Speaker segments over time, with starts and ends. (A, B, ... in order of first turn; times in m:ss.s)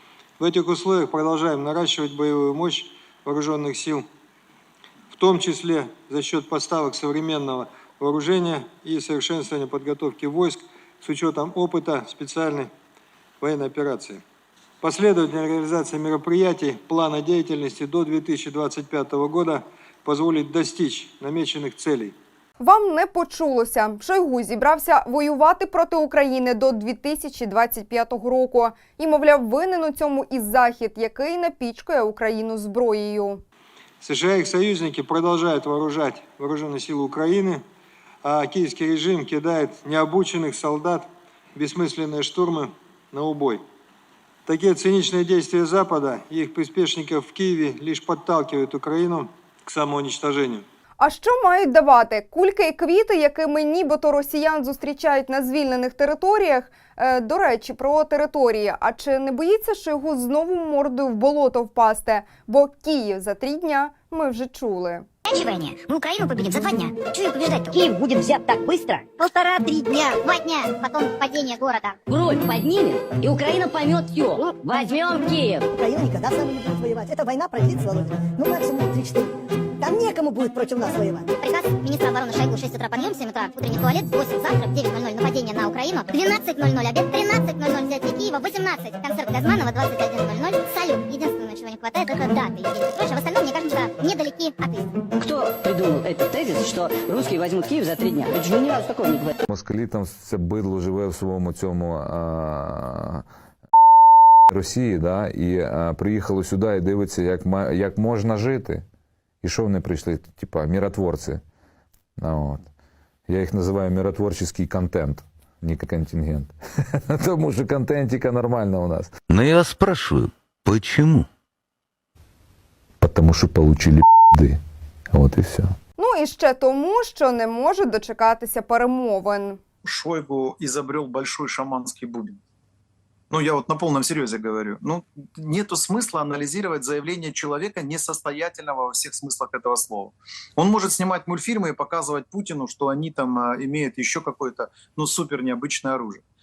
0:00.4-0:04.1 A
0:05.1-0:12.7 A
0:13.4-0:14.2 A
0:14.8-0:22.2 A
0:22.6-0:33.4 B
0:34.0-0:37.6 A
0:38.2-0:43.6 A
0:44.5-0:50.6 A
0:51.0-1:05.0 B
1:05.5-1:06.4 C
1:06.2-1:06.9 D
1:07.0-1:09.8 C
1:10.0-1:12.0 D
1:12.0-1:15.6 C
1:15.7-1:19.2 E
1:19.8-1:21.2 E
1:21.4-1:34.9 D
1:35.2-1:39.4 C
1:39.5-1:43.3 F
1:44.5-1:48.8 F
1:49.4-1:51.4 F
1:52.2-1:52.7 F
1:53.3-1:59.1 F
1:59.3-2:01.3 G
2:03.0-2:04.6 F
2:05.1-2:05.7 F
2:06.0-2:09.6 B
2:09.8-2:12.4 H
2:13.3-2:26.2 H